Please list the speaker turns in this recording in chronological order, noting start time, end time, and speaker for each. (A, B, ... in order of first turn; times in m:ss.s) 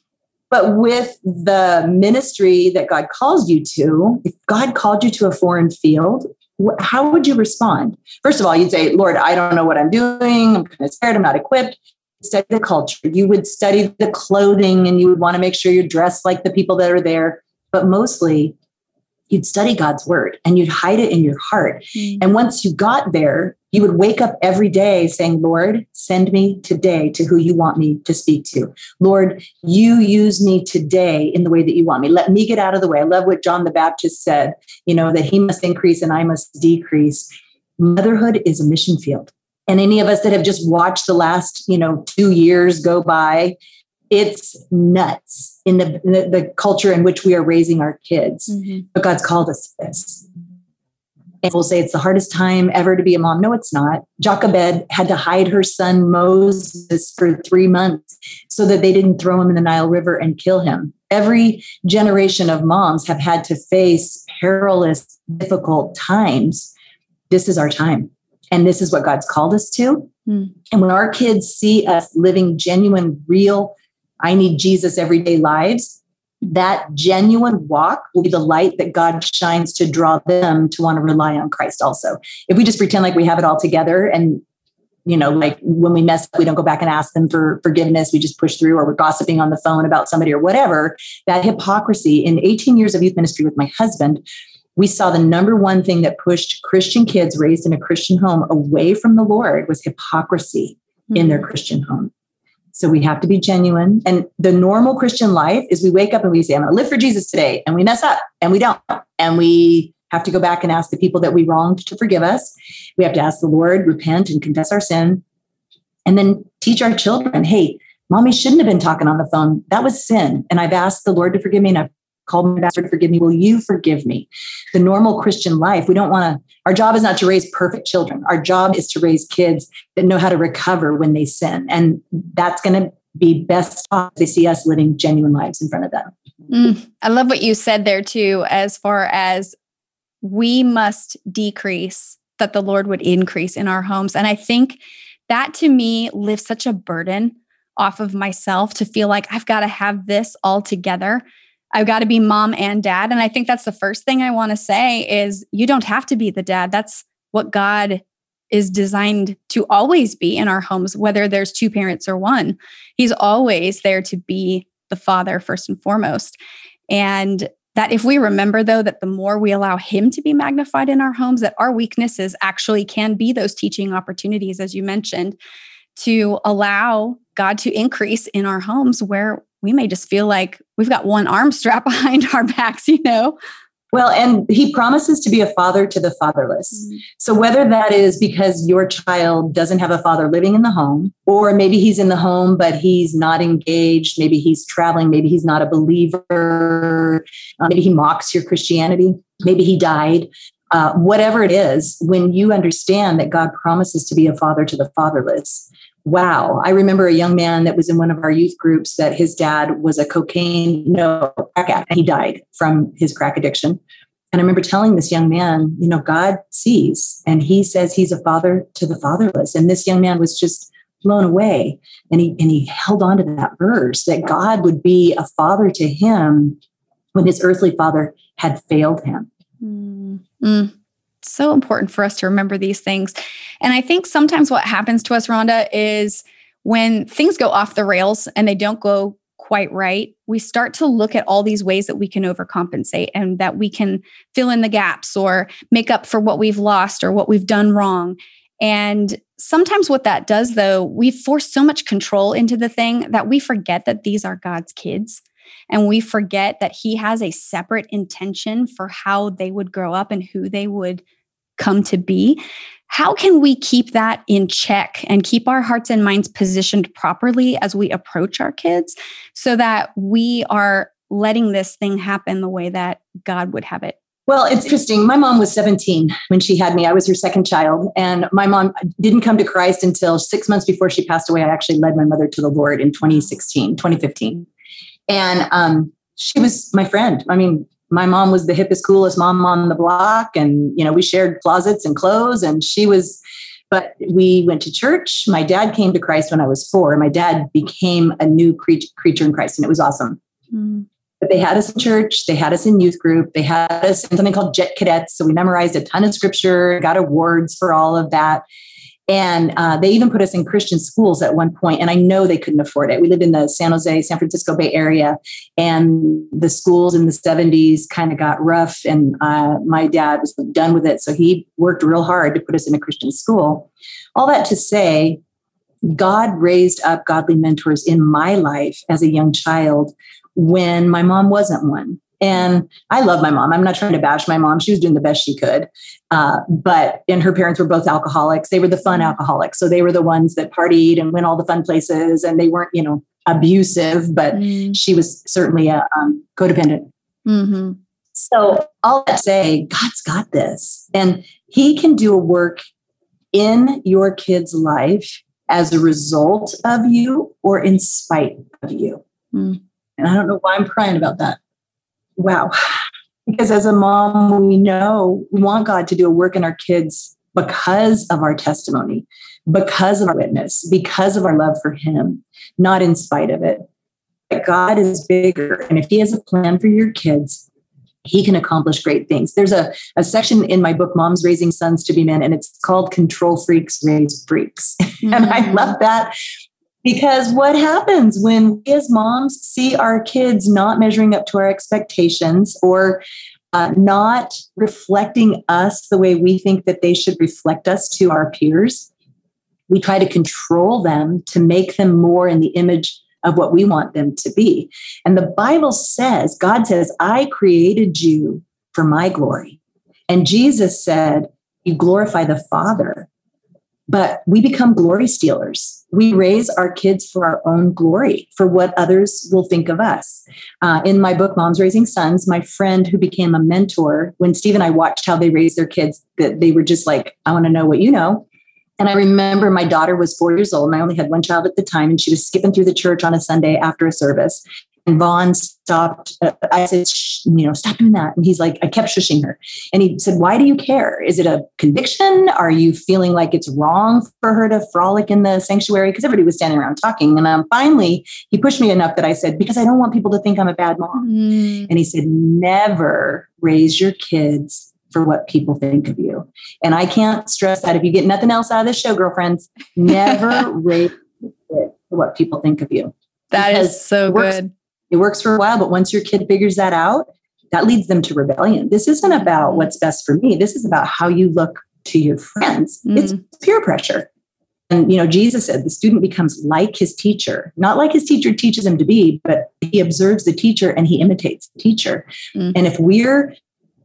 0:00.5-0:18.6 A
0:19.3-0:43.6 A
0:22.0-0:22.3 B
0:44.1-0:50.2 A
0:48.5-0:48.8 B
0:51.4-1:06.7 A
1:07.3-1:10.1 A
1:10.7-1:24.4 A
1:25.1-1:34.2 A
1:34.8-1:42.1 A
1:42.7-1:55.2 A
1:56.1-2:16.1 A
2:16.5-2:19.6 B
2:20.2-2:31.2 B
2:31.7-2:46.4 B
2:46.9-2:55.4 B
2:56.0-3:03.4 B
3:03.9-3:33.8 A
3:34.3-3:46.6 A
3:47.1-3:49.3 A
3:49.6-4:21.0 B
4:21.6-4:34.0 B
4:34.3-4:44.5 A
4:45.1-4:53.2 A
4:53.7-5:00.2 A
5:00.5-5:00.8 B
5:01.2-5:08.4 A
5:09.1-5:25.2 A
5:25.8-5:46.9 A
5:44.3-5:44.8 B
5:47.3-5:47.8 B
5:48.1-5:52.6 A
5:53.3-5:59.0 A
5:59.3-5:59.6 B
6:00.0-6:01.4 A
6:02.2-6:13.6 A
6:14.3-6:17.4 A
6:18.0-6:26.1 A
6:25.0-6:25.7 B
6:26.8-6:38.9 A
6:39.7-6:53.1 A
6:53.9-7:08.3 A
7:08.8-7:31.1 A
7:31.0-7:31.7 B
7:31.7-7:44.4 A
7:43.3-7:44.5 B
7:44.9-7:54.1 A
7:52.9-7:53.2 B
7:54.7-8:03.3 A